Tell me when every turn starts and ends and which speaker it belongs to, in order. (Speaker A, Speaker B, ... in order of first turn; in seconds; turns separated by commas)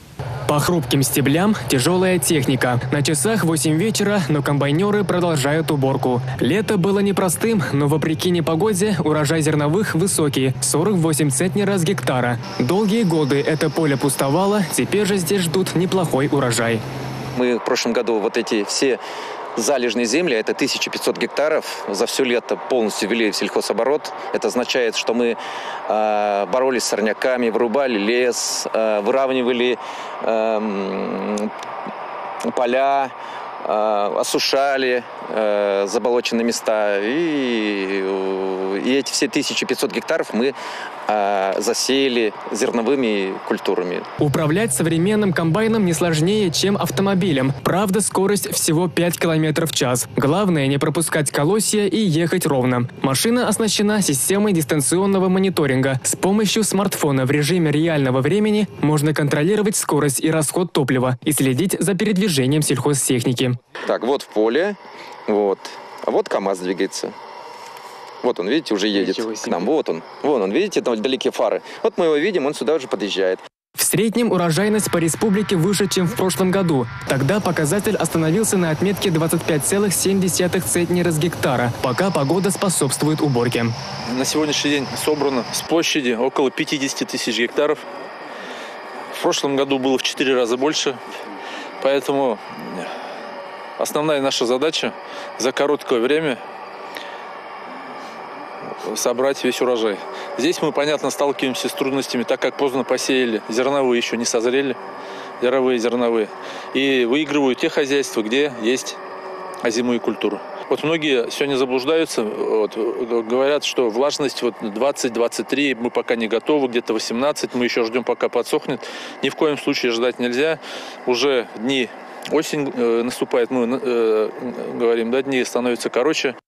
Speaker A: 0.5-16.8, Speaker B: 17.4-19.0, Speaker B: 19.6-25.4, Speaker B: 25.9-31.5, Speaker B: 32.5-40.5, Speaker B: 41.1-44.0, Speaker A: 44.2-63.6, Speaker B: 63.9-64.8, Speaker B: 65.3-67.1, Speaker B: 68.2-73.4, Speaker A: 73.8-83.7, Speaker C: 84.1-87.8, Speaker C: 89.1-91.0, Speaker C: 91.8-92.9, Speaker C: 93.8-96.4, Speaker C: 98.8-104.8, Speaker C: 105.4-109.0, Speaker C: 109.6-126.3